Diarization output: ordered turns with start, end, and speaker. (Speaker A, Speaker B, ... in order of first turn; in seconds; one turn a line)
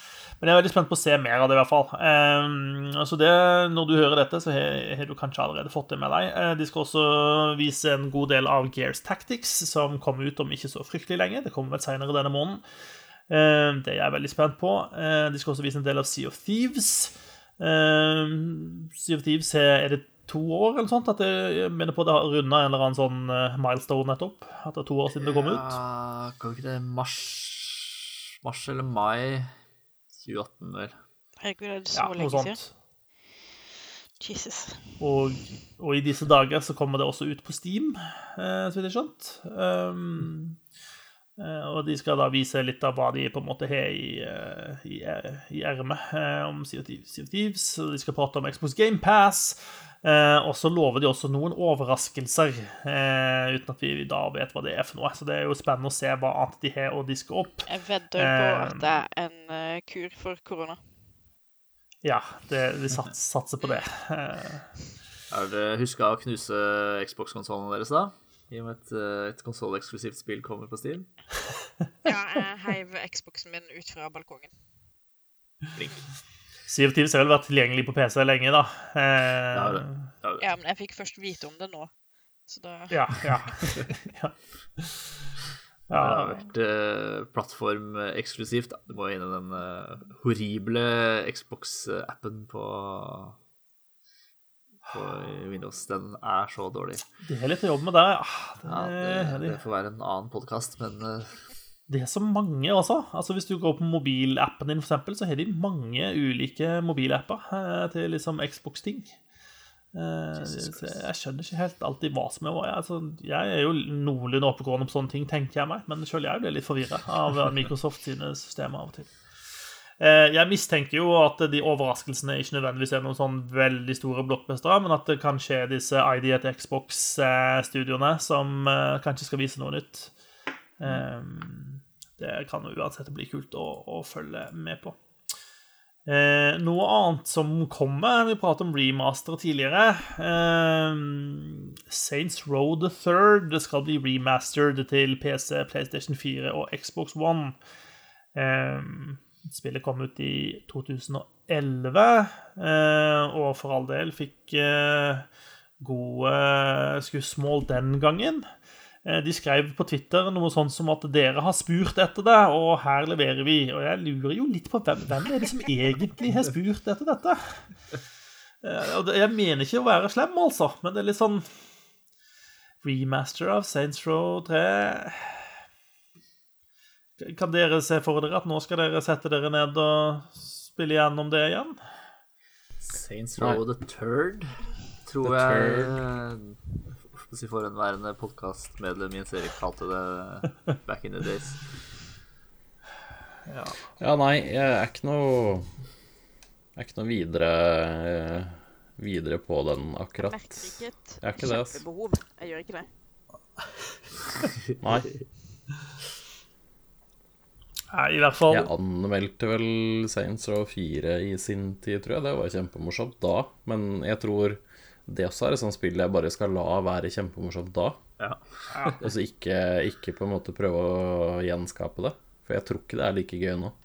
Speaker A: 0.4-12.6
Speaker A: 13.3-25.8
Speaker B: 25.2-29.5
Speaker B: 30.2-30.9
Speaker C: 31.4-32.6
Speaker A: 31.9-32.7
Speaker C: 34.2-34.9
Speaker A: 35.0-40.6
Speaker A: 41.4-58.9
Speaker C: 57.7-60.8
Speaker A: 62.0-64.7
Speaker B: 65.3-71.1
Speaker C: 72.0-74.5
Speaker B: 75.7-76.0
Speaker A: 76.7-80.0
Speaker B: 79.5-80.4
Speaker C: 80.4-81.9
Speaker C: 82.5-83.7
Speaker A: 82.9-85.4
Speaker A: 85.9-86.4
Speaker B: 85.9-93.4
Speaker B: 94.9-97.0
Speaker A: 97.2-99.6
Speaker B: 98.7-101.4
Speaker A: 101.9-109.2
Speaker A: 109.9-119.1
Speaker B: 110.3-111.0
Speaker A: 120.0-130.1
Speaker A: 130.8-134.9
Speaker A: 136.1-147.6
Speaker A: 148.3-155.3
Speaker A: 155.8-158.4
Speaker A: 159.0-167.6
Speaker A: 168.6-171.5
Speaker A: 172.8-175.5
Speaker A: 177.2-181.8
Speaker B: 182.8-191.7
Speaker D: 185.2-186.0
Speaker A: 193.5-193.8
Speaker D: 194.0-195.7
Speaker D: 196.8-201.8
Speaker C: 200.2-202.9
Speaker D: 204.8-205.1
Speaker A: 207.9-208.7
Speaker D: 208.5-218.0
Speaker B: 218.2-219.0
Speaker D: 219.0-223.7